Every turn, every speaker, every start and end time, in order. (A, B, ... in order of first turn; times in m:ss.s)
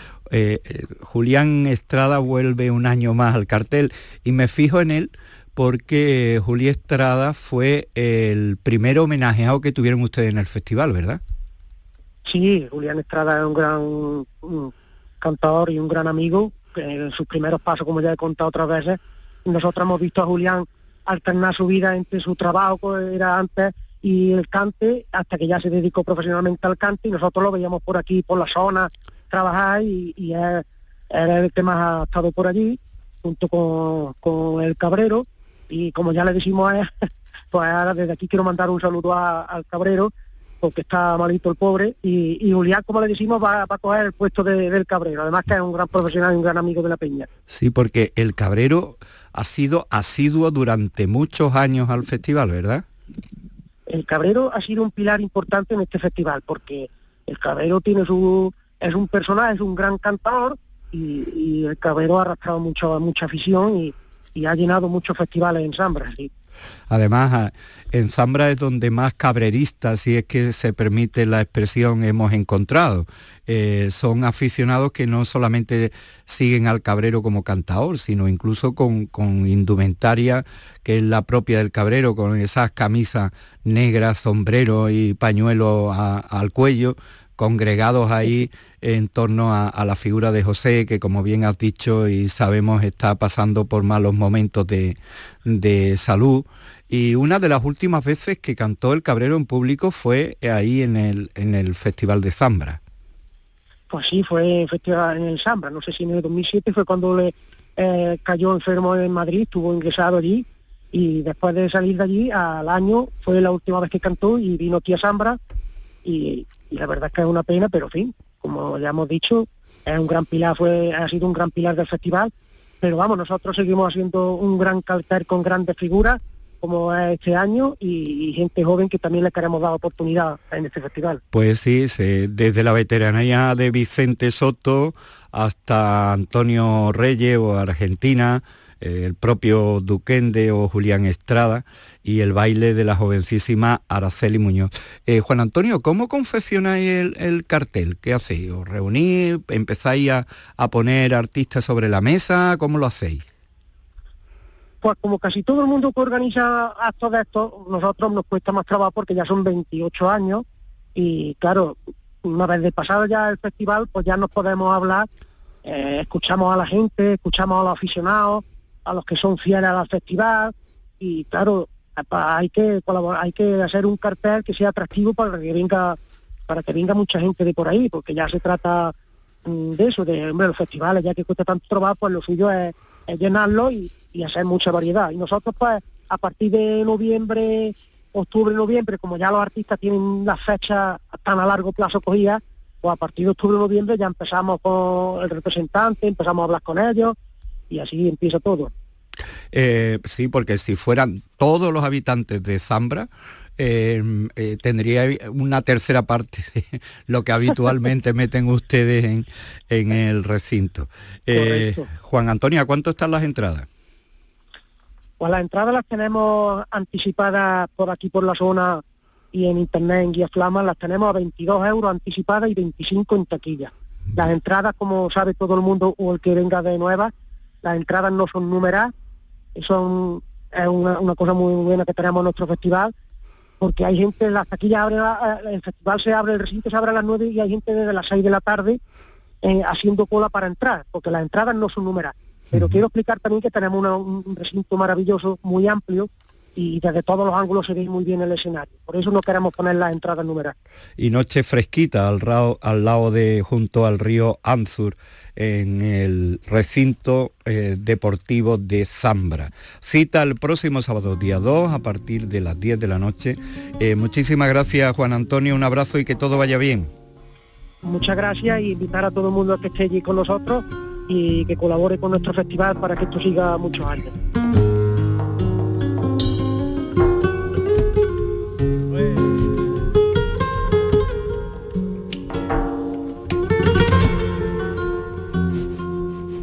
0:00.3-0:11.2 A
0:12.2-0:36.9 B
0:37.5-0:47.3 B
0:47.5-0:52.8 A
0:53.9-1:06.3 B
1:06.9-1:42.8 A
1:43.9-1:55.4 B
1:56.0-2:11.2 B
2:11.3-2:33.2 A
2:34.8-2:45.1 B
2:45.6-2:58.9 B
2:59.4-3:17.2 B
3:17.7-3:18.7 B
3:19.5-3:33.7 A
3:31.3-3:31.8 B
3:35.2-3:47.1 B
3:47.6-3:48.9 B
3:49.5-3:52.9 B
3:53.6-3:58.8 B
3:59.4-4:10.5 B
4:02.5-4:02.8 A
4:11.0-4:26.9 A
4:27.8-4:34.1 B